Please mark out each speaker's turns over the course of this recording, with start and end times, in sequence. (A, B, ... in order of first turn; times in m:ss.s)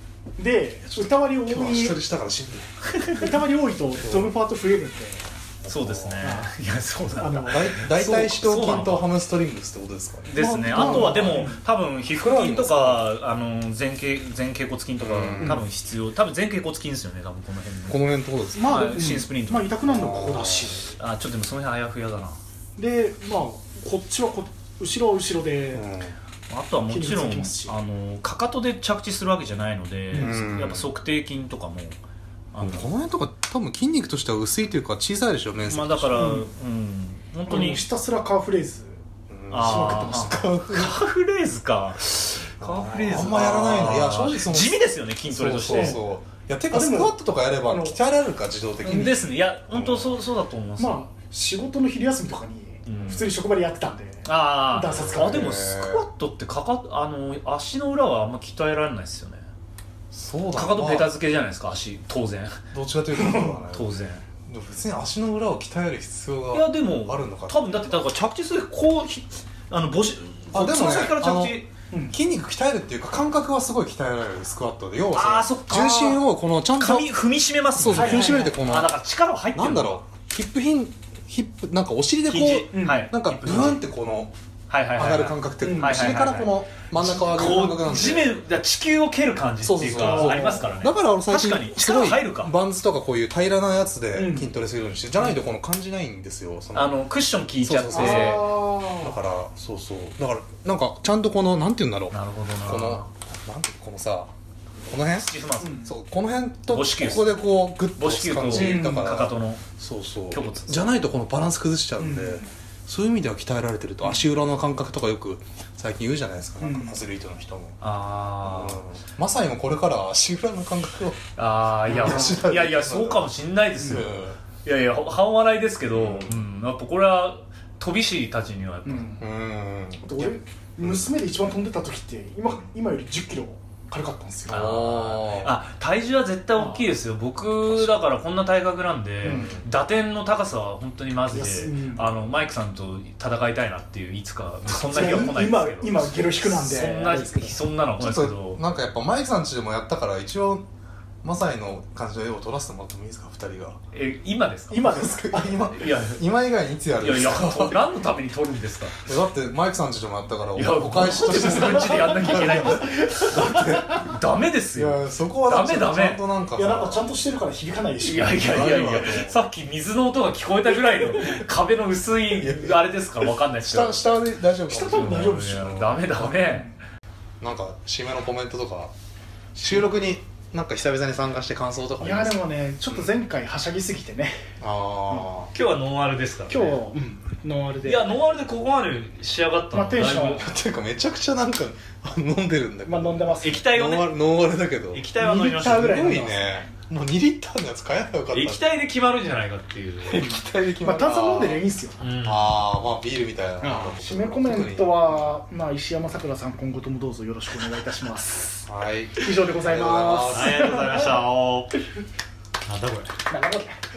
0:00.4-0:02.0 A
0:00.8-0:02.7 B
0:02.8-0:03.3 C
0:03.1-0:05.3 A
0:04.0-0:04.3 B
0:05.6-0:06.2 B
0:05.7-0:09.1 C
0:06.2-0:06.5 A
0:07.2-0:07.7 A
0:07.5-0:11.5 B
0:10.3-0:19.7 C
0:10.4-0:11.6 A
0:12.1-0:13.1 B
0:15.0-0:15.6 B
0:17.9-0:18.8 B
0:18.5-0:21.0 A
0:19.9-0:20.8 B
0:21.0-0:22.4 C
0:22.8-0:25.8 A
0:25.7-0:26.1 B
0:26.5-0:32.0 C
0:26.9-0:27.8 A
0:30.1-0:30.4 A
0:30.2-0:30.9 B
0:32.5-0:32.9 C
0:32.6-0:36.4 B
0:35.7-0:37.8 C
0:36.2-0:36.4 A
0:37.5-0:39.0 A
0:39.3-0:41.0 B
0:39.5-0:46.0 C
0:39.5-0:40.5 A
0:42.6-0:50.1 B
0:45.7-0:46.0 A
0:46.7-0:48.0 A
0:48.8-0:51.0 C
0:50.8-0:55.6 A
0:52.8-0:53.3 C
0:52.9-0:53.2 B
0:54.2-0:59.4 C
0:54.9-0:56.0 B
1:00.1-1:01.1 B
1:00.5-1:02.6 C
1:02.7-1:03.9 B
1:03.2-1:03.6 A
1:03.7-1:04.2 C
1:04.4-1:07.7 B
1:06.5-1:11.7 C
1:10.5-1:11.6 B
1:11.9-1:12.2 A
1:12.1-1:17.1 B
1:15.1-1:16.2 C
1:16.8-1:20.0 C
1:17.8-1:18.9 B
1:17.9-1:18.6 A
1:19.5-1:24.3 B
1:22.3-1:23.8 C
1:22.7-1:23.1 A
1:24.7-1:32.5 C
1:25.0-1:28.3 B
1:25.6-1:26.2 A
1:29.6-1:36.9 B
1:30.0-1:30.7 A
1:34.1-1:34.5 A
1:36.7-1:38.5 C
1:37.6-1:44.3 B
1:37.9-1:39.2 A
1:42.1-1:43.1 C
1:44.9-1:45.3 B
1:45.1-1:45.9 C
1:45.6-1:45.9 A
1:45.8-1:57.8 B
1:46.7-1:47.4 C
1:48.0-1:49.6 C
1:48.5-1:49.2 A
1:50.3-1:50.9 C
1:52.0-1:52.5 A
1:56.6-1:57.0 A
1:57.8-1:58.8 C
1:58.4-2:01.2 B
2:01.4-2:04.1 C
2:01.9-2:02.4 A
2:01.9-2:03.2 B
2:03.8-2:04.4 B
2:04.6-2:09.2 C
2:05.9-2:06.4 B
2:08.8-2:09.2 A
2:09.2-2:11.0 B
2:10.0-2:14.7 A
2:14.5-2:15.5 B
2:14.5-2:28.6 C
2:16.6-2:16.9 A
2:19.2-2:19.6 A
2:19.2-2:19.6 B
2:21.3-2:22.1 A
2:24.7-2:27.6 A
2:28.0-2:30.6 B
2:31.2-2:33.8 B
2:33.9-2:34.9 C
2:34.7-2:35.6 A
2:34.8-2:37.9 B
2:35.8-2:36.2 C
2:37.0-2:39.0 C
2:39.0-2:44.1 B
2:40.5-2:46.2 C
2:41.6-2:43.8 A
2:44.7-2:47.0 B
2:46.5-2:48.7 A
2:48.0-2:54.0 C
2:48.4-2:49.4 B
2:52.3-2:56.3 B
2:54.7-2:56.7 A
2:54.8-2:56.8 C
2:57.4-2:58.9 B
2:59.6-3:03.0 B
3:02.0-3:04.4 A
3:04.6-3:05.5 B
3:05.5-3:06.8 C
3:06.5-3:08.2 A
3:07.8-3:10.5 C
3:09.7-3:10.6 A
3:10.4-3:15.0 B
3:12.8-3:13.6 A
3:13.4-3:14.3 C
3:14.9-3:16.1 C
3:15.2-3:16.6 A
3:15.6-3:18.6 B
3:18.3-3:20.4 C
3:20.1-3:21.6 B
3:20.8-3:22.0 A
3:22.0-3:22.5 C
3:22.2-3:25.4 B
3:23.6-3:28.6 A
3:28.6-3:30.8 B
3:29.2-3:31.2 A
3:30.3-3:31.8 C
3:32.6-3:33.1 C
3:33.3-3:33.8 A